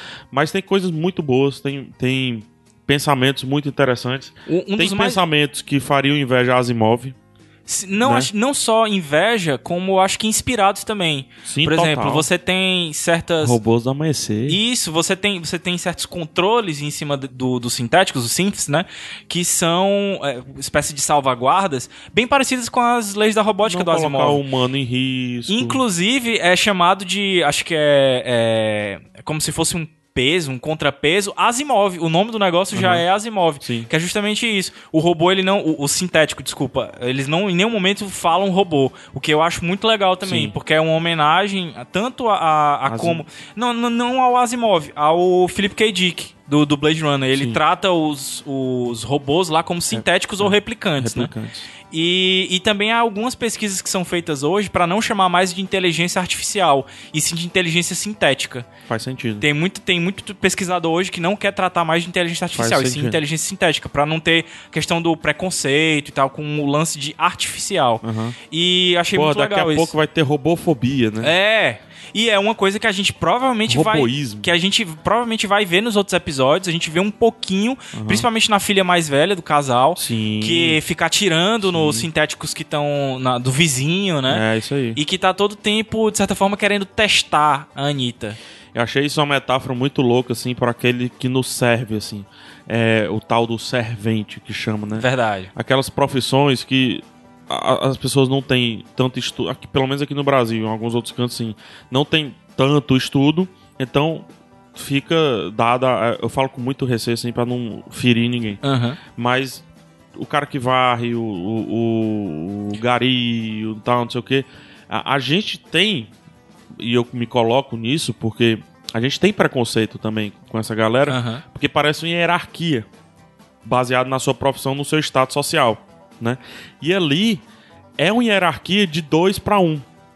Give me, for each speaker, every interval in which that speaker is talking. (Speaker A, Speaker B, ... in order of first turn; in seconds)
Speaker A: 0.3-7.2, 8.0-8.3, 11.4-12.3, 13.4-14.6, 23.6-25.8, 32.7-33.0, 33.6-33.9, 40.2-40.5, 42.9-43.2, 47.3-47.6, 49.9-51.7, 58.9-59.4, 62.5-63.2, 68.0-68.4, 69.1-71.3, 73.7-74.5, 77.9-78.3, 80.0-80.8, 81.6-82.1, 84.3-85.0, 88.7-108.6, 109.1-116.1, 116.8-122.9, 123.6-127.4, 128.0-129.8
Speaker B: 4.5-5.2, 7.7-13.6, 14.5-24.4, 25.5-51.3, 51.9-58.7, 59.4-69.9, 71.2-84.4, 85.0-88.4, 94.9-95.5, 108.6-109.0, 121.1-121.4